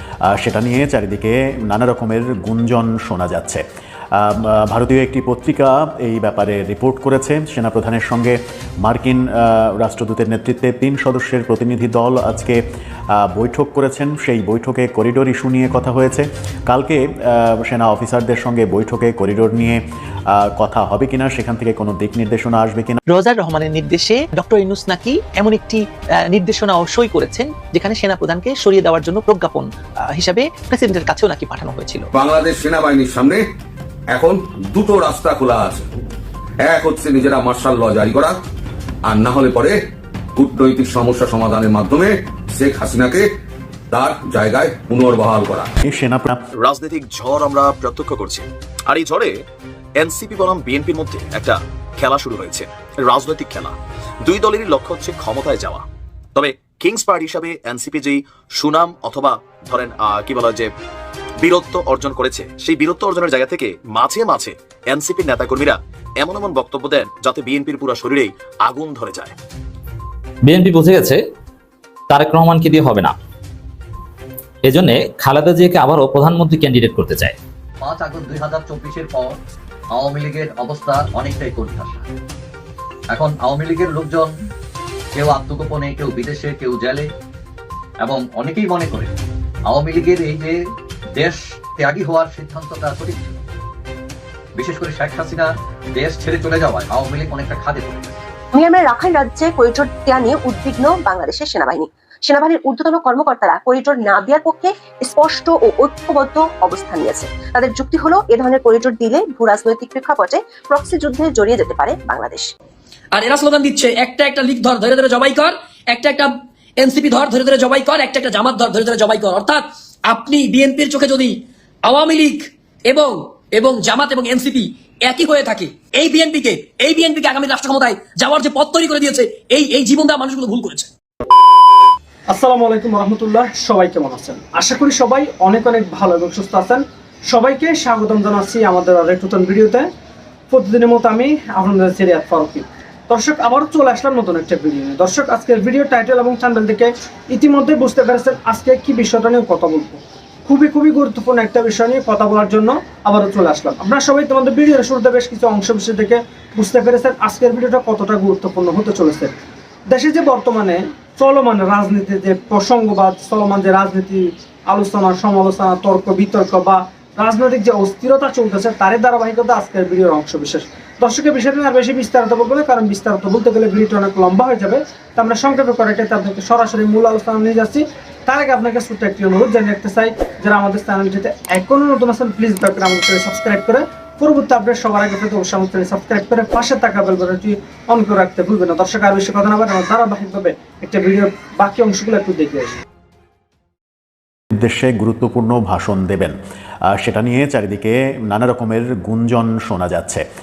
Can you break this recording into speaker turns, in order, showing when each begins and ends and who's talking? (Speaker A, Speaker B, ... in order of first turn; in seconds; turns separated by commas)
Speaker A: 0.3-3.6, Speaker A: 4.2-12.6, Speaker A: 13.2-19.8, Speaker A: 20.4-23.0, Speaker B: 23.1-32.0, Speaker C: 32.1-33.4, Speaker C: 34.1-35.9, Speaker C: 36.6-38.4, Speaker C: 39.1-39.8, Speaker C: 40.4-43.3, Speaker C: 43.9-45.7, Speaker A: 45.9-46.4, Speaker D: 46.6-49.3, Speaker D: 50.0-55.9, Speaker D: 56.4-60.7, Speaker D: 61.4-69.4, Speaker E: 70.5-71.2, Speaker E: 72.1-73.2, Speaker E: 74.6-77.4, Speaker F: 77.8-79.3, Speaker F: 80.0-82.1, Speaker F: 83.1-84.3, Speaker F: 85.2-87.1, Speaker F: 88.0-89.1, Speaker F: 89.7-90.6, Speaker F: 91.2-93.4, Speaker F: 94.6-98.3, Speaker G: 98.5-112.5, Speaker H: 113.1-130.9, Speaker I: 132.3-139.9, Speaker I: 140.5-159.4, Speaker I: 159.9-192.8, Speaker A: 194.6-196.3, Speaker A: 197.0-200.2